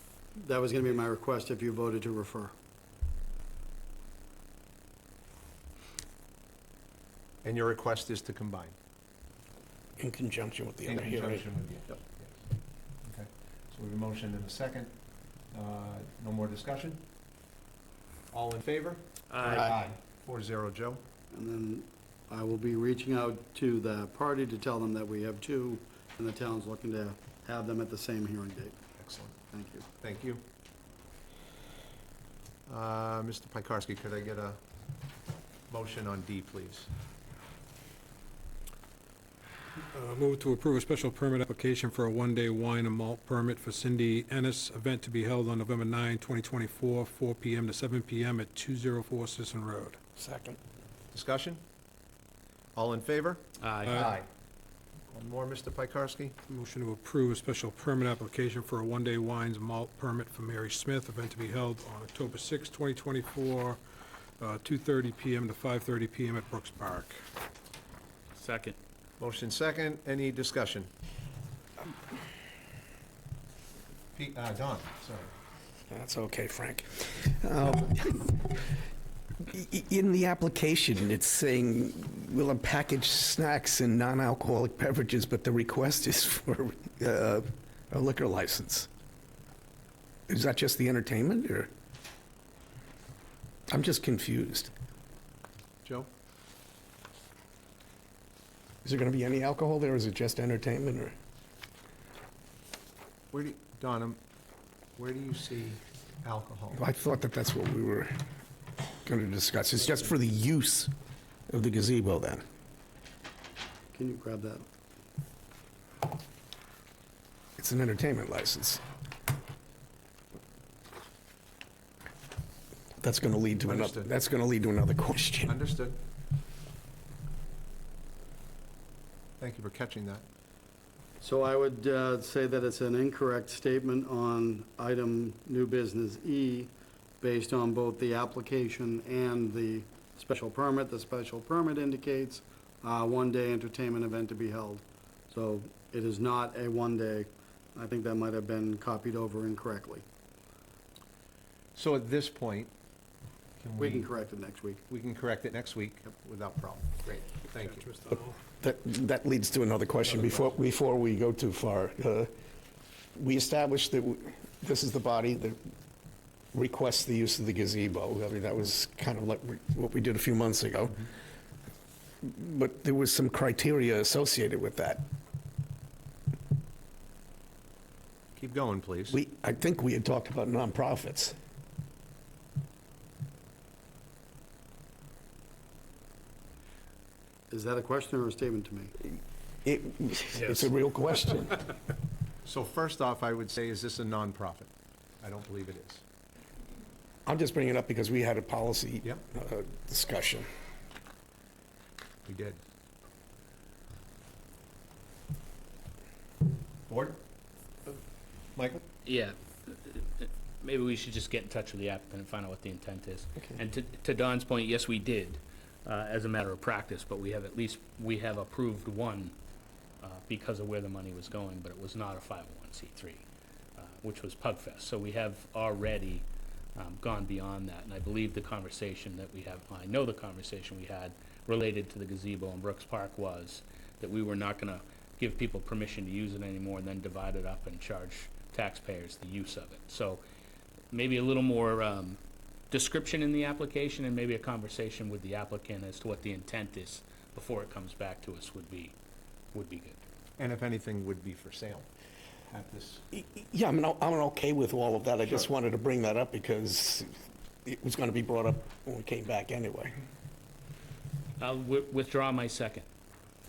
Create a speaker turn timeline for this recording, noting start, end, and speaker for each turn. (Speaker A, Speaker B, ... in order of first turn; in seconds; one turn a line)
Speaker A: 0.4-2.5
Speaker B: 7.4-8.8
Speaker C: 10.0-11.4
Speaker B: 10.9-12.3
Speaker B: 13.0-14.9
Speaker B: 15.5-17.0
Speaker B: 18.3-21.0
Speaker D: 19.3-19.8
Speaker A: 21.3-28.8
Speaker B: 29.0-29.4
Speaker A: 29.5-29.9
Speaker B: 30.0-30.4
Speaker B: 32.7-34.6
Speaker B: 35.7-36.9
Speaker E: 39.9-50.0
Speaker C: 50.2-50.6
Speaker B: 51.1-51.6
Speaker B: 52.8-54.3
Speaker D: 53.6-54.1
Speaker B: 55.1-56.4
Speaker E: 56.5-63.8
Speaker E: 64.4-67.1
Speaker D: 68.3-68.8
Speaker B: 69.2-70.9
Speaker B: 74.1-75.3
Speaker C: 75.9-78.5
Speaker C: 79.5-88.9
Speaker C: 90.3-91.7
Speaker C: 93.7-94.7
Speaker B: 95.8-96.1
Speaker C: 98.8-101.1
Speaker B: 103.3-104.2
Speaker B: 105.0-106.8
Speaker C: 106.7-108.1
Speaker C: 109.0-110.9
Speaker C: 111.5-112.4
Speaker A: 113.9-114.6
Speaker C: 117.6-118.8
Speaker C: 123.0-125.6
Speaker B: 123.7-124.1
Speaker B: 125.5-126.0
Speaker B: 129.4-130.2
Speaker A: 131.2-150.0
Speaker B: 151.8-152.7
Speaker B: 153.6-154.1
Speaker A: 153.8-154.8
Speaker B: 154.9-157.9
Speaker E: 157.7-158.3
Speaker C: 158.6-162.3
Speaker C: 163.1-165.6
Speaker C: 166.5-171.1
Speaker C: 172.2-175.0
Speaker B: 178.3-179.2
Speaker C: 179.1-181.3
Speaker A: 187.5-188.9
Speaker C: 189.6-191.7
Speaker B: 192.4-196.0
Speaker C: 197.2-200.4
Speaker B: 202.2-202.6
Speaker B: 206.9-207.2
Speaker B: 208.5-208.8
Speaker D: 209.0-219.3
Speaker D: 220.0-223.2
Speaker D: 223.8-240.2
Speaker D: 240.9-242.2
Speaker D: 242.7-248.9
Speaker D: 249.5-250.0
Speaker B: 250.4-251.9
Speaker B: 252.5-253.0
Speaker C: 253.1-257.1
Speaker C: 257.6-259.9
Speaker D: 261.4-262.8